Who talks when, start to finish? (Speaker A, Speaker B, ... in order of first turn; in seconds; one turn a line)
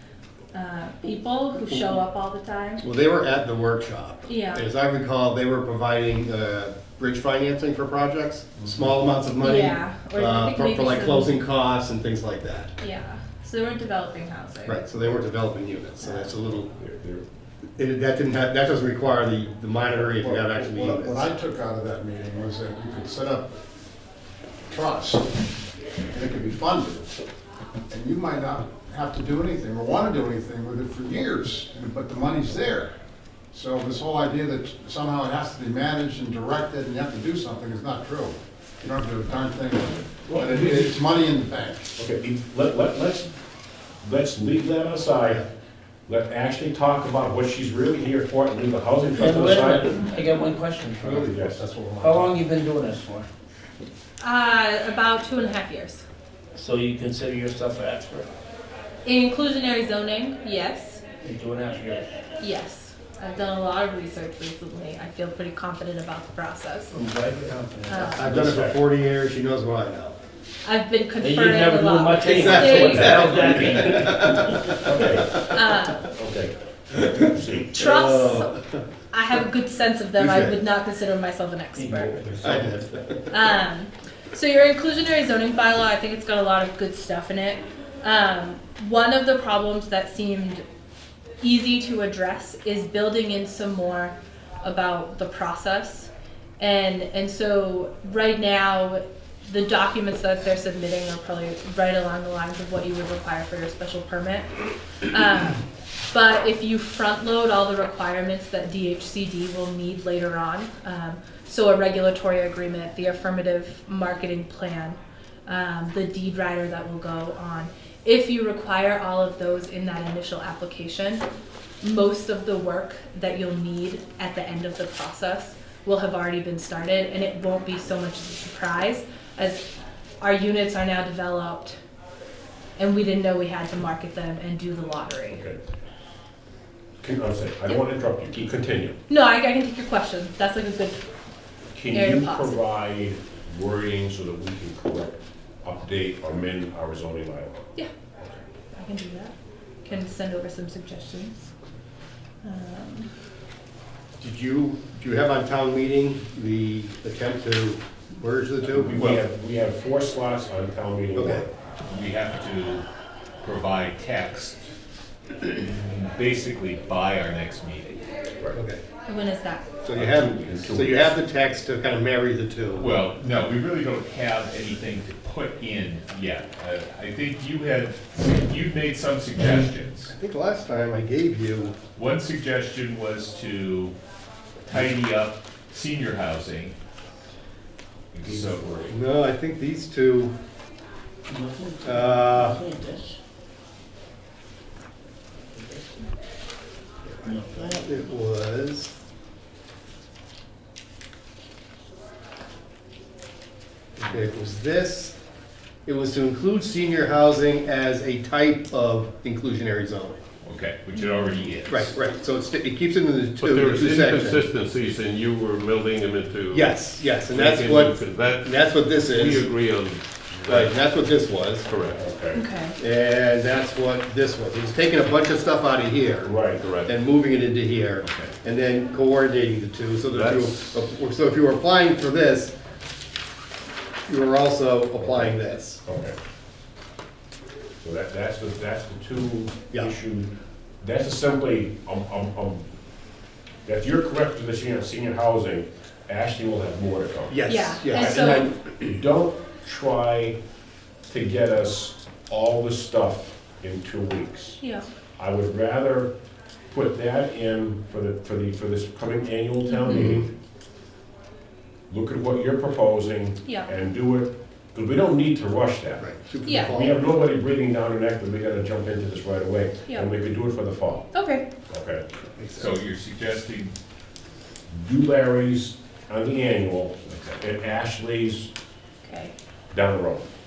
Speaker A: 0.5-2.8
Speaker B: 2.8-12.8
Speaker A: 4.2-4.7
Speaker A: 9.4-11.4
Speaker A: 12.8-14.8
Speaker B: 14.7-16.7
Speaker A: 16.0-16.3
Speaker C: 16.6-17.3
Speaker B: 17.8-21.3
Speaker D: 20.6-23.6
Speaker D: 24.7-25.4
Speaker D: 26.1-27.1
Speaker D: 27.9-32.9
Speaker D: 33.5-41.9
Speaker C: 40.3-40.9
Speaker C: 42.0-43.3
Speaker C: 44.0-45.5
Speaker C: 46.1-50.0
Speaker E: 49.1-51.4
Speaker C: 51.0-51.6
Speaker B: 51.1-51.7
Speaker E: 52.0-53.3
Speaker A: 54.2-56.0
Speaker E: 56.5-58.3
Speaker A: 59.0-61.0
Speaker E: 61.2-62.1
Speaker A: 62.4-67.0
Speaker E: 66.9-68.5
Speaker A: 67.9-68.3
Speaker B: 68.1-70.2
Speaker C: 68.3-68.8
Speaker A: 70.6-73.5
Speaker E: 71.2-74.5
Speaker B: 72.2-74.7
Speaker C: 74.8-75.4
Speaker A: 75.4-76.1
Speaker C: 76.1-77.7
Speaker B: 77.7-78.8
Speaker A: 77.7-82.2
Speaker B: 80.2-80.6
Speaker E: 81.8-82.9
Speaker B: 82.4-83.2
Speaker A: 83.3-90.6
Speaker A: 91.4-104.5
Speaker A: 105.1-105.6
Speaker A: 106.1-121.2
Speaker A: 121.8-129.7
Speaker A: 130.2-131.8
Speaker A: 132.8-135.4
Speaker C: 135.3-135.6
Speaker C: 137.0-139.0
Speaker A: 139.1-141.0
Speaker C: 141.7-147.7
Speaker A: 141.9-142.6
Speaker A: 148.7-151.4
Speaker A: 152.4-153.1
Speaker B: 154.2-158.9
Speaker C: 158.7-161.5
Speaker F: 158.9-159.2
Speaker B: 161.1-161.4
Speaker F: 161.9-162.8
Speaker F: 163.4-164.7
Speaker F: 165.4-168.0
Speaker B: 168.5-168.8
Speaker A: 169.1-169.7
Speaker B: 169.8-172.9
Speaker C: 169.9-171.1
Speaker F: 172.8-180.1
Speaker B: 180.1-181.8
Speaker F: 181.9-183.9
Speaker F: 184.7-186.7
Speaker F: 188.1-188.9
Speaker C: 188.2-188.9
Speaker B: 188.9-190.3
Speaker E: 191.3-193.2
Speaker B: 191.8-192.6
Speaker E: 195.5-195.8
Speaker B: 197.0-198.9
Speaker E: 197.2-197.8
Speaker B: 204.0-205.1
Speaker B: 205.8-210.2
Speaker F: 210.4-211.9
Speaker A: 210.9-211.4
Speaker B: 211.7-214.4
Speaker G: 213.4-220.8
Speaker B: 216.5-219.5
Speaker B: 220.5-221.7
Speaker G: 221.7-222.0
Speaker C: 221.9-222.4
Speaker A: 222.3-222.8
Speaker B: 222.8-232.5
Speaker C: 226.2-226.7
Speaker G: 226.5-226.9
Speaker F: 228.0-228.3
Speaker G: 230.1-230.7
Speaker B: 234.1-235.8
Speaker C: 235.0-236.2
Speaker C: 237.8-242.7
Speaker C: 243.7-247.4
Speaker B: 247.3-249.0
Speaker A: 247.5-248.5
Speaker C: 247.9-250.4
Speaker C: 251.1-254.6
Speaker A: 254.6-254.9
Speaker C: 255.2-256.1
Speaker C: 256.7-260.3
Speaker A: 259.7-260.2
Speaker C: 261.9-271.1
Speaker A: 263.4-263.7
Speaker B: 266.0-267.1
Speaker A: 266.4-266.7
Speaker A: 271.1-271.5
Speaker C: 271.7-272.1
Speaker B: 272.4-272.8
Speaker F: 272.6-273.7
Speaker C: 274.7-278.5
Speaker A: 279.0-279.3
Speaker C: 279.7-280.3